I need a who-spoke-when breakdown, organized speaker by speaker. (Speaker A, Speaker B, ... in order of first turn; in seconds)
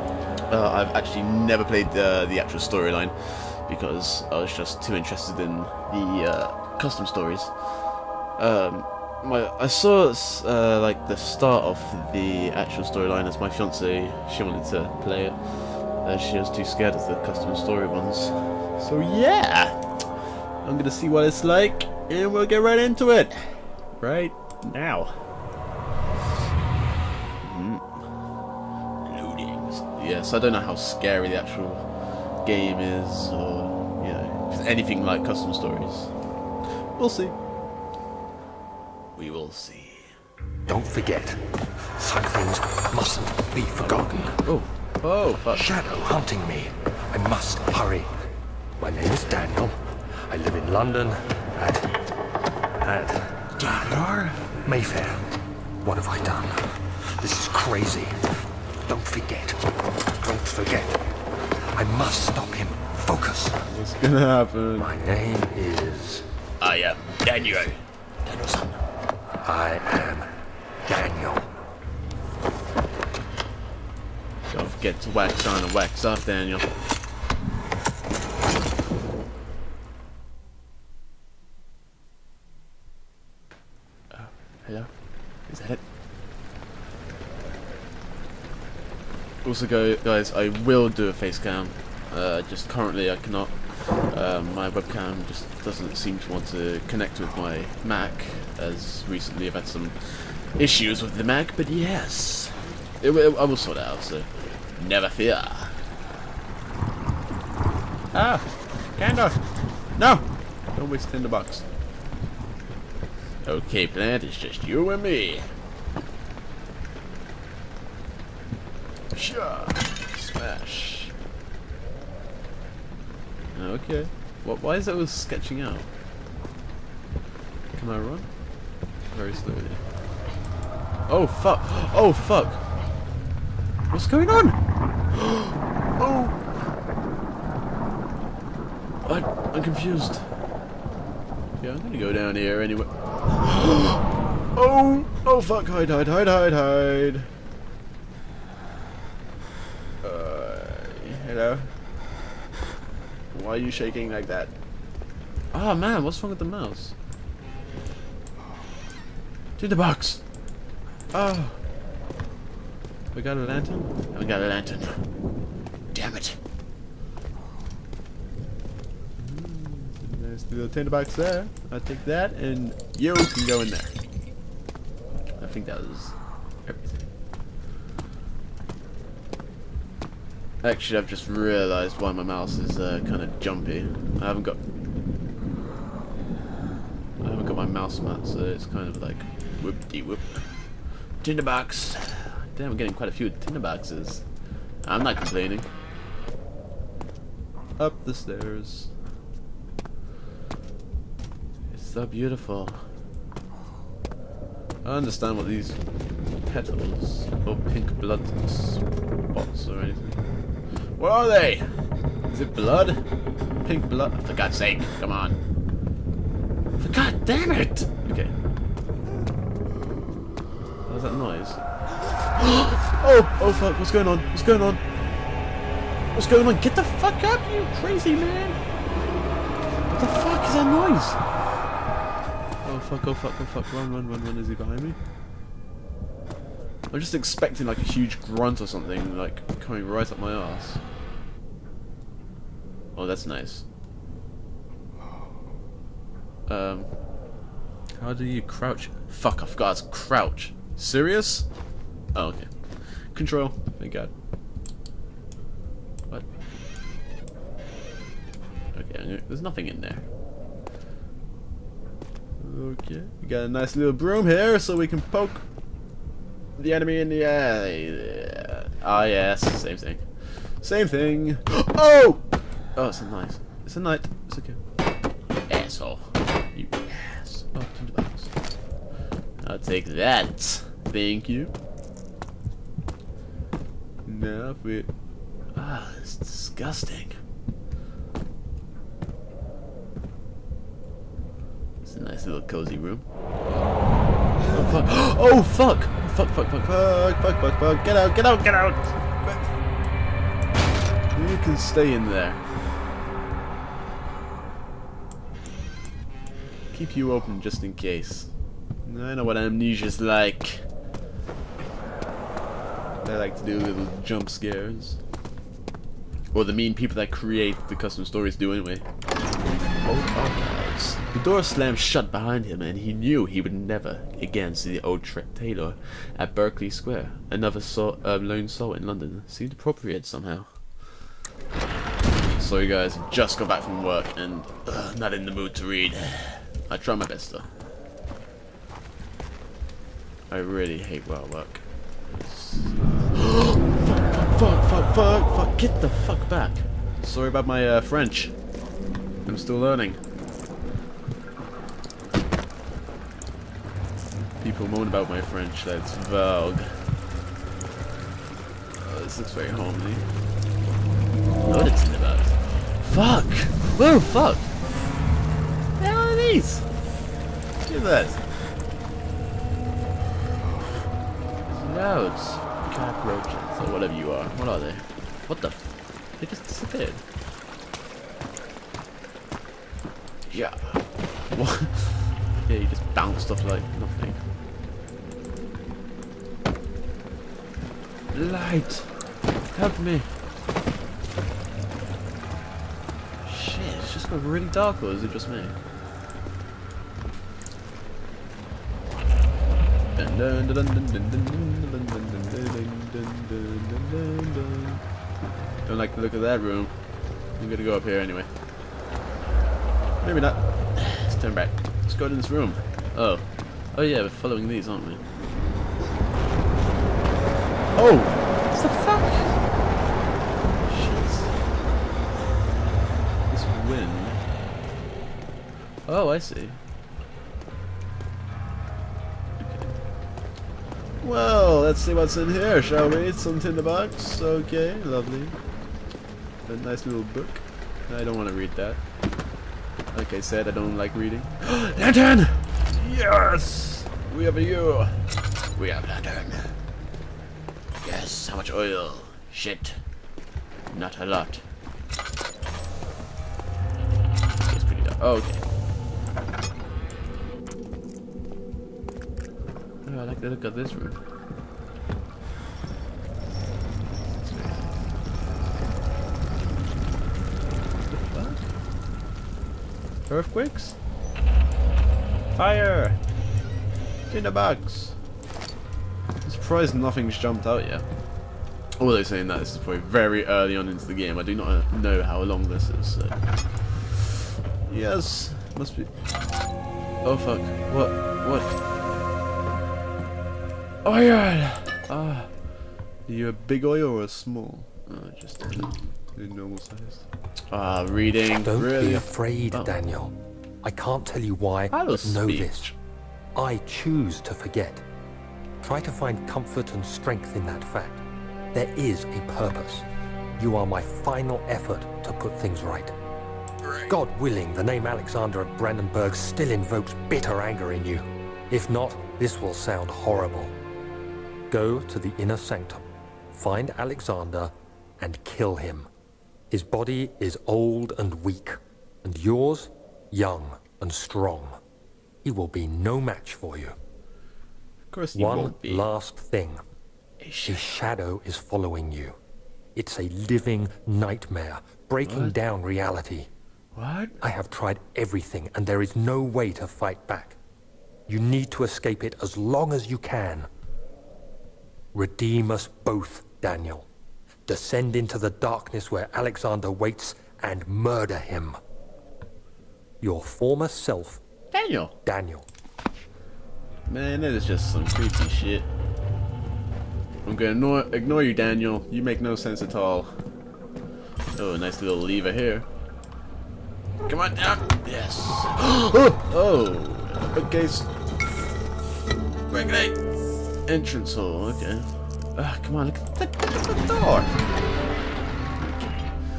Speaker A: 0.5-7.7, 8.4-19.8, 20.6-25.2, 27.4-28.0, 29.0-31.9, 32.4-36.1, 36.9-37.4, 39.1-40.1, 44.4-45.7, 53.6-54.5, 63.7-64.9, 66.6-68.8, 74.5-76.7, 84.1-84.9, 85.5-85.8, 89.4-105.8, 108.1-109.4, 109.9-111.7, 113.4-115.5, 119.1-121.1, 123.5-125.9, 127.7-128.3, 129.1-129.8, 131.1-132.6, 133.9-134.6, 135.1-136.4, 139.0-140.3, 141.6-144.0, 144.5-147.3, 150.0-151.7, 153.3-154.5, 155.5-156.9, 159.6-160.2, 161.1-161.6, 163.1-165.0, 165.9-166.4, 169.2-173.9, 175.4-177.0, 180.6-184.6, 187.2-190.5, 191.2-194.2, 194.8-195.7, 197.8-198.9, 201.7-202.8, 204.8-205.8, 206.4-211.8, 212.3-213.0, 213.6-215.4, 216.8-218.3, 220.9-221.6, 222.3-224.8, 226.1-228.6, 229.9-231.2, 232.6-235.0, 236.9-240.8, 242.9-243.6, 246.5-246.9, 248.0-251.5, 252.1-254.1, 258.7-260.0, 262.4-265.4, 266.6-274.6, 275.5-278.3, 279.4-281.5, 284.0-284.9, 285.5-287.2, 291.8-293.1, 294.5-299.4, 301.1-302.4, 306.7-308.3, 308.8-310.6, 313.0-315.0, 316.3-318.8, 319.8-330.6, 332.4-337.5, 340.3-348.3, 349.2-350.0, 354.4-356.8, 358.7-360.1, 361.4-364.5, 365.8-366.7, 367.6-368.2, 371.5-377.0, 380.3-384.2, 388.1-388.9, 389.5-390.1, 393.2-395.6, 399.9-404.8, 405.6-406.7, 407.4-408.3, 410.0-415.0, 417.7-419.4, 420.6-421.4, 423.3-424.2, 425.9-426.6, 429.4-429.7, 431.0-435.4, 436.5-438.8, 439.9-445.0, 445.6-446.5, 447.8-449.8, 450.7-451.4, 454.4-455.4, 459.8-461.0, 463.9-464.9, 467.9-468.5, 470.1-470.8, 472.3-473.0, 474.1-475.0, 476.2-477.8, 478.8-485.9, 487.0-488.6, 490.8-492.3, 493.1-499.8, 501.7-502.7, 513.6-513.9, 534.9-535.9, 537.2-537.7, 542.0-542.4, 543.7-544.2, 561.5-562.0, 563.9-565.7, 567.2-570.1, 571.3-572.7, 574.0-577.9, 579.5-580.0, 580.6-584.4, 585.6-586.0
Speaker B: 40.7-41.4, 42.0-44.4, 45.5-48.1, 48.8-51.9, 52.8-54.0, 54.6-55.2, 55.8-58.1, 58.9-59.6, 60.2-61.0, 61.7-63.6, 64.8-66.2, 69.4-70.3, 70.9-71.5, 498.4-502.7, 503.4-504.8, 505.6-509.9, 510.4-512.9, 513.9-520.5, 521.5-525.9, 526.5-531.6, 532.2-533.8, 535.1-536.6, 537.4-539.2, 539.7-543.3, 544.2-547.4, 548.1-550.5, 551.9-553.9, 554.5-558.6, 560.0-561.2, 562.0-562.5